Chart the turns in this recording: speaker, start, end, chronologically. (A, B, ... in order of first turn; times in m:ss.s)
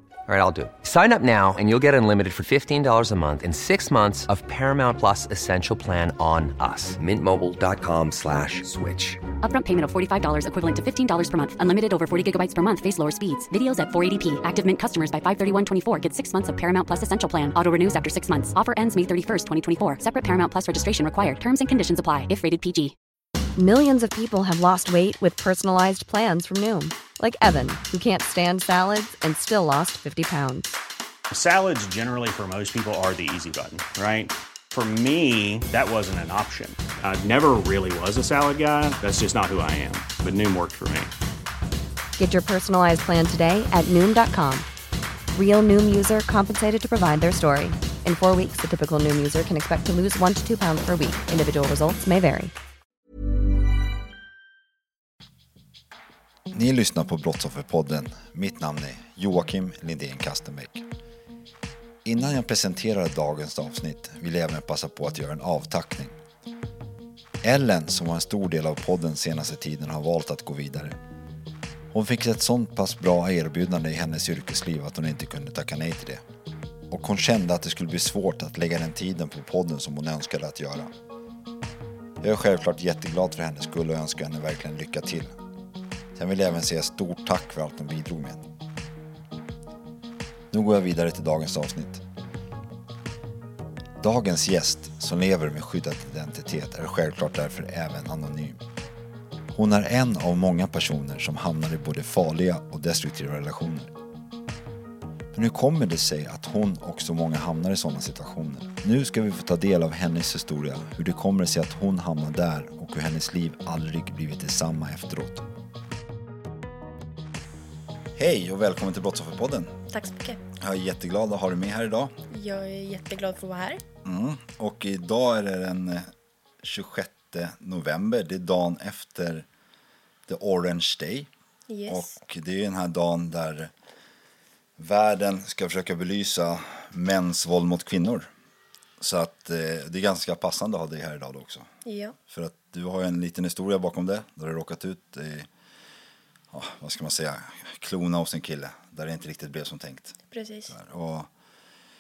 0:00.3-0:09.2 A
0:09.4-0:22.9 B
0:23.6-0:30.7 C
0:31.3-0:41.1 D
0:42.2-0:44.7 C
0:45.3-0:52.5 C
0:56.5-1:00.9 E
1:02.0-1:06.2 E
1:07.4-1:11.0 E
1:11.9-1:16.2 E
1:16.9-1:20.9 E
1:22.2-1:25.4 E
1:26.2-1:28.5 E
1:30.5-1:32.0 E
1:34.0-1:38.6 E
1:39.5-1:43.9 E
1:45.3-1:55.4 E
1:58.2-1:59.8 E
1:59.9-2:00.4 F
2:00.6-2:02.2 E
2:02.3-2:03.8 F
2:04.0-2:06.1 E
2:06.6-2:09.5 E
2:10.3-2:11.3 E
2:11.7-2:12.2 F
2:11.9-2:13.7 E
2:14.8-2:18.3 E
2:19.0-2:21.7 E
2:21.8-2:22.2 F
2:22.3-2:25.5 E
2:26.5-2:30.2 E
2:30.3-2:30.7 F
2:30.7-2:31.3 E